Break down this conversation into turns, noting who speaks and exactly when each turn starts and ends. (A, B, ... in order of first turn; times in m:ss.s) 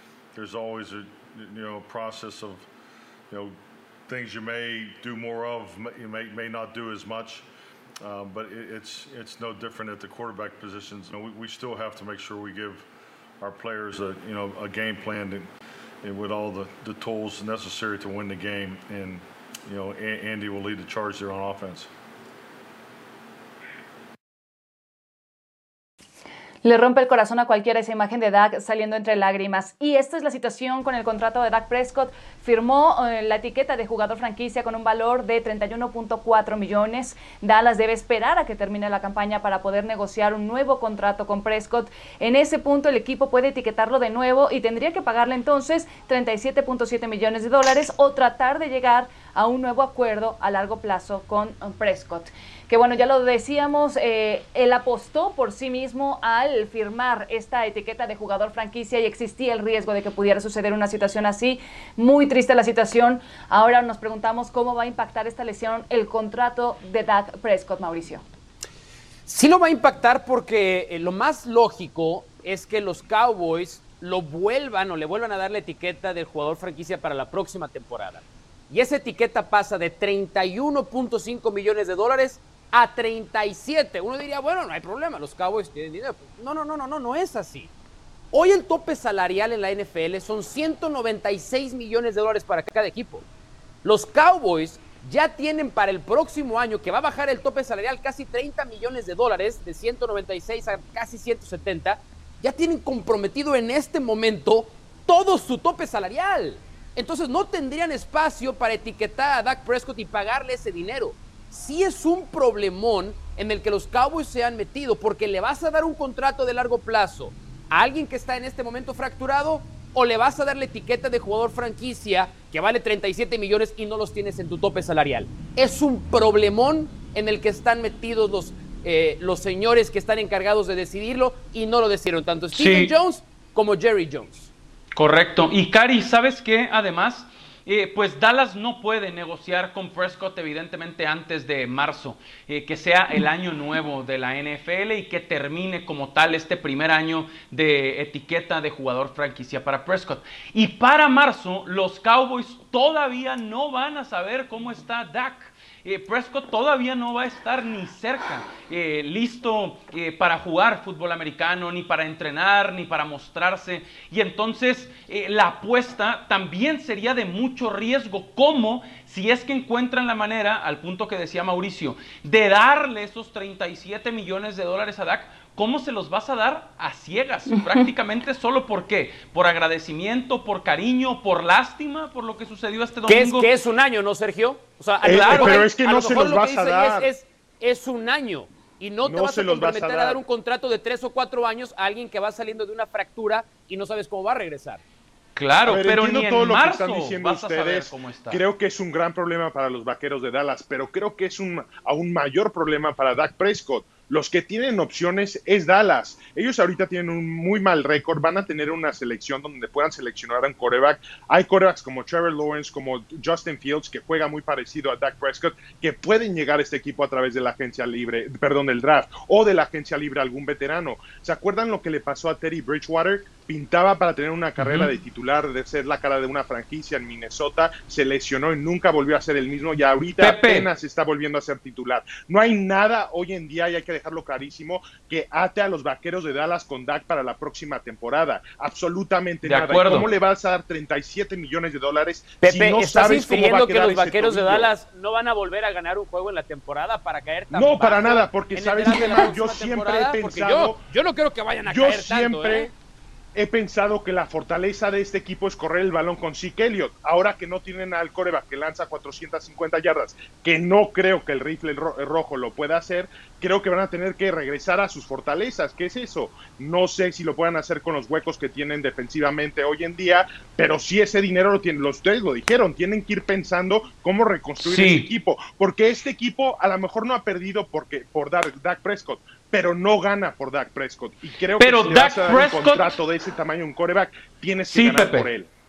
0:00.3-0:02.6 A
0:03.3-0:03.5 A
0:04.1-0:07.4 A
0:08.0-0:12.8 A
0:13.4-0:15.5 A
0:16.0-0:21.9 A
0:26.6-1:08.2 B
1:09.2-1:27.7 C
1:28.3-1:33.2 C
1:33.8-2:14.5 C
2:12.5-2:12.9 D
2:14.9-3:03.5 D
3:03.1-3:14.8 C
3:05.0-3:07.1 E
3:05.0-3:05.7 D
3:09.0-3:10.2 E
3:15.4-3:18.4 D
3:15.6-4:04.7 E
3:44.6-3:44.9 D
3:50.2-3:50.7 D
3:59.4-4:00.1 D
4:02.4-4:12.7 C
4:07.5-4:10.8 E
4:11.6-4:12.7 E
4:13.3-4:45.5 E
4:34.6-4:35.1 D
4:41.6-4:43.0 D
4:44.7-4:45.3 D